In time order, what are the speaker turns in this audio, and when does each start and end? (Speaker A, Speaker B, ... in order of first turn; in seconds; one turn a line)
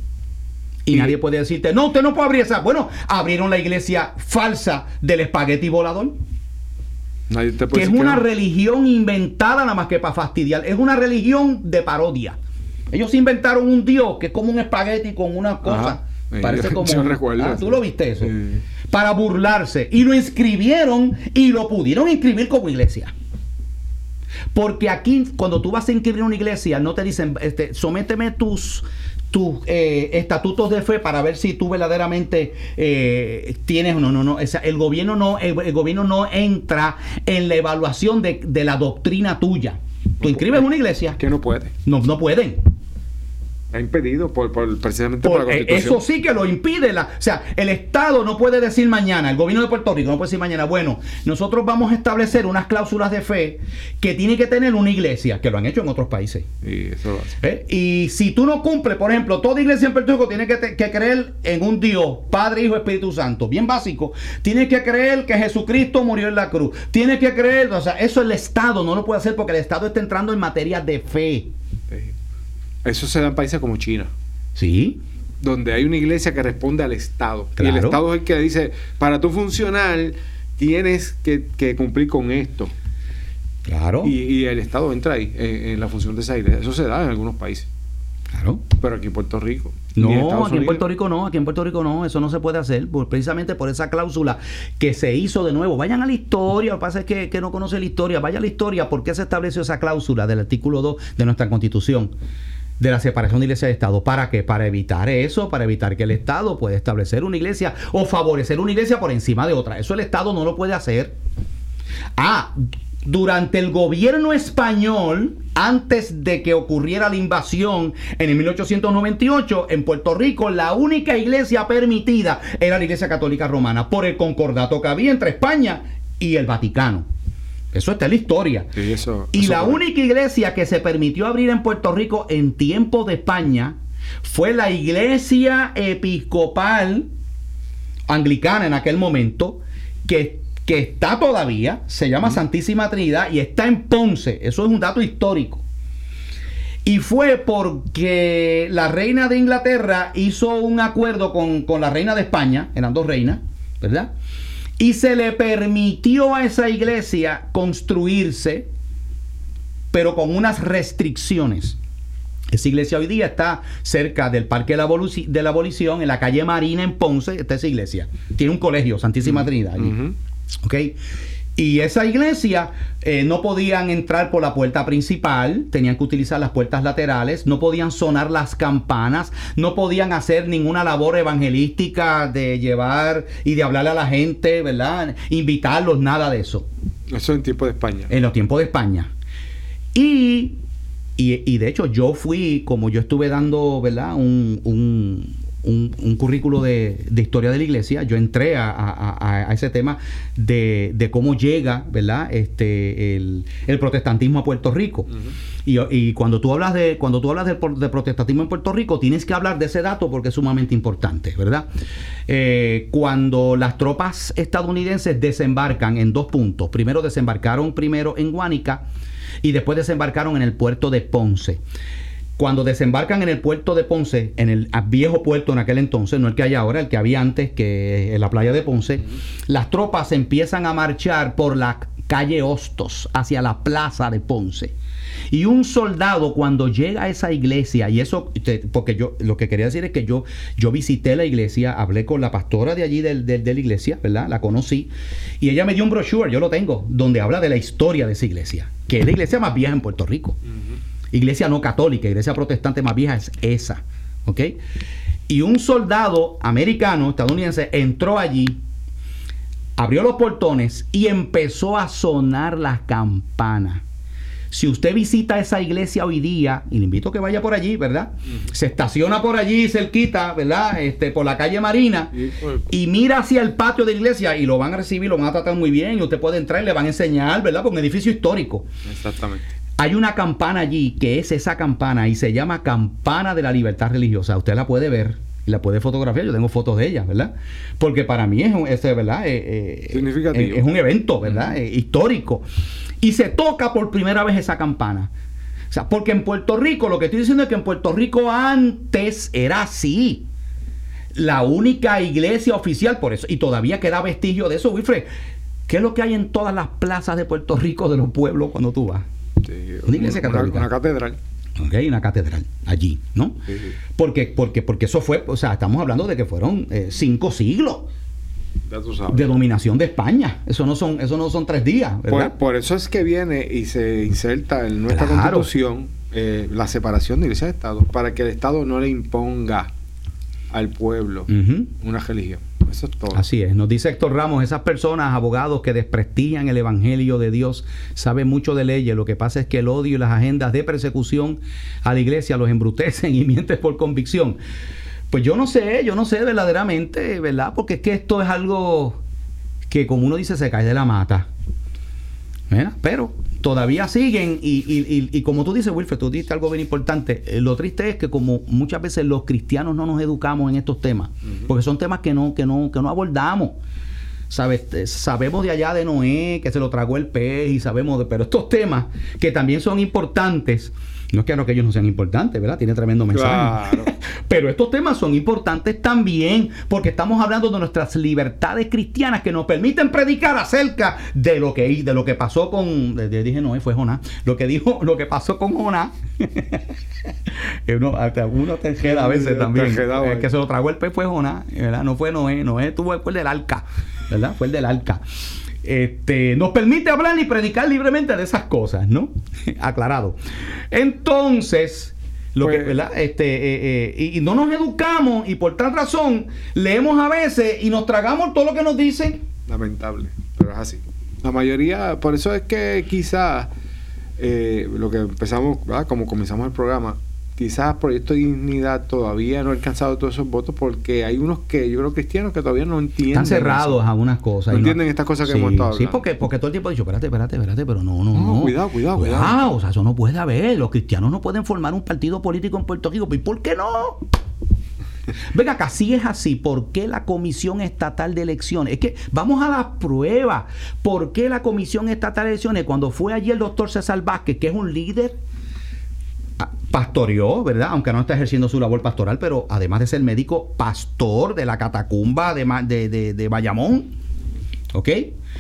Speaker A: 0.9-6.2
Speaker B: 0.9-1.2
Speaker B: 7.3-8.2
Speaker A: 7.7-12.4
Speaker A: 12.9-18.4
Speaker B: 15.6-18.6
Speaker A: 18.9-23.1
Speaker A: 24.5-41.2
Speaker B: 40.2-41.7
Speaker A: 41.8-42.6
Speaker B: 43.7-46.0
Speaker A: 45.2-56.5
Speaker B: 56.6-57.4
Speaker A: 57.4-71.5
Speaker B: 72.8-74.1
Speaker A: 74.6-75.0
Speaker B: 75.4-82.7
Speaker A: 77.6-78.0
Speaker A: 83.7-84.1
Speaker B: 84.0-87.7
Speaker A: 88.3-88.6
Speaker B: 88.8-90.8
Speaker A: 90.0-102.1
Speaker A: 102.8-111.2
Speaker A: 112.2-127.1
Speaker A: 127.7-128.7
Speaker B: 128.8-129.8
Speaker A: 129.3-137.1
Speaker A: 138.1-145.6
Speaker A: 146.8-154.1
Speaker A: 154.8-158.7
Speaker A: 159.9-161.8
Speaker A: 162.5-169.9
Speaker B: 169.2-170.1
Speaker A: 170.6-171.0
Speaker A: 171.6-186.7
Speaker B: 187.1-188.1
Speaker A: 188.1-189.1
Speaker A: 189.9-190.6
Speaker A: 191.2-205.1
Speaker A: 205.7-211.7
Speaker A: 212.3-218.8
Speaker A: 219.4-221.6
Speaker A: 222.4-234.7
Speaker A: 235.3-250.4
Speaker A: 251.1-254.6
Speaker A: 255.3-258.6
Speaker A: 259.8-263.8
Speaker A: 264.5-272.1
Speaker B: 272.1-272.6
Speaker A: 272.7-278.7
Speaker B: 278.9-279.4
Speaker A: 279.8-292.4
Speaker B: 289.9-290.7
Speaker A: 293.0-295.1
Speaker A: 295.7-300.3
Speaker A: 301.1-305.1
Speaker A: 305.7-309.1
Speaker B: 309.4-311.2
Speaker A: 309.9-310.7
Speaker A: 311.6-313.4
Speaker B: 313.5-313.8
Speaker A: 313.9-317.9
Speaker B: 318.7-319.3
Speaker A: 319.1-322.4
Speaker B: 322.1-329.7
Speaker A: 324.9-325.5
Speaker B: 330.5-333.2
Speaker A: 331.3-331.7
Speaker A: 333.1-344.4
Speaker A: 345.1-349.0
Speaker A: 349.7-351.3
Speaker A: 352.5-363.6
Speaker A: 364.3-395.0
Speaker B: 373.1-373.9
Speaker B: 388.9-390.3
Speaker A: 395.6-409.2
Speaker B: 402.4-402.8
Speaker B: 409.5-413.5
Speaker B: 414.2-423.8
Speaker A: 423.1-434.1
Speaker B: 424.5-426.0
Speaker B: 428.1-429.4
Speaker A: 435.3-445.2
Speaker A: 446.4-453.9
Speaker A: 454.7-455.1